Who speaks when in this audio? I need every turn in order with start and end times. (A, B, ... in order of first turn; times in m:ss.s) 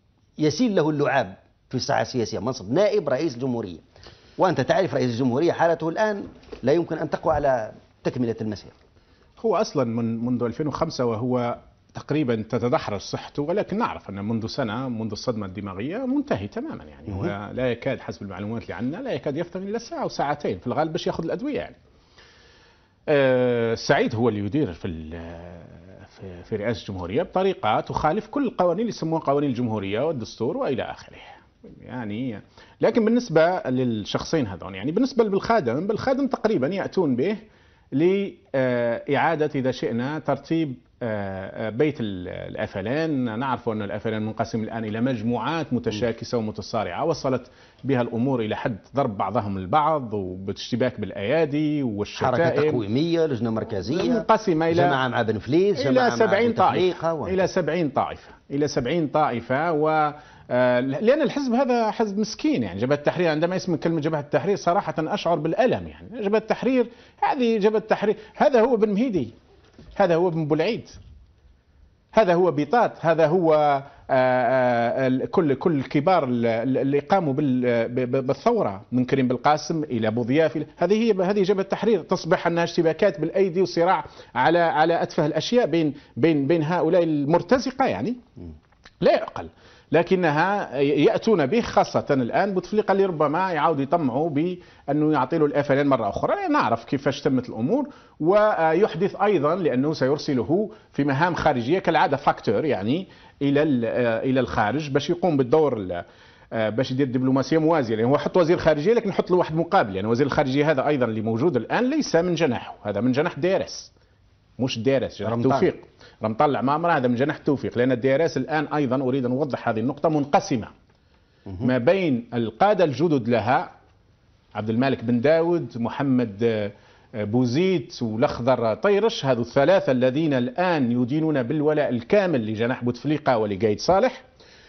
0:00.4-0:03.8 A
0:04.4-0:08.7 A
0:09.4-0:21.8 B
0:23.1-0:37.4 B
0:38.0-0:52.8 B
0:52.2-0:57.5 A
0:53.9-0:55.0 B
0:55.8-1:09.3 B
1:10.0-1:10.9 B
1:12.1-1:28.2 B
1:29.0-1:46.0 B
1:46.5-1:53.9 B
1:54.6-2:00.7 B
1:55.2-1:55.7 A
2:01.6-2:03.7 B
2:04.6-2:06.7 B
2:07.2-2:14.2 B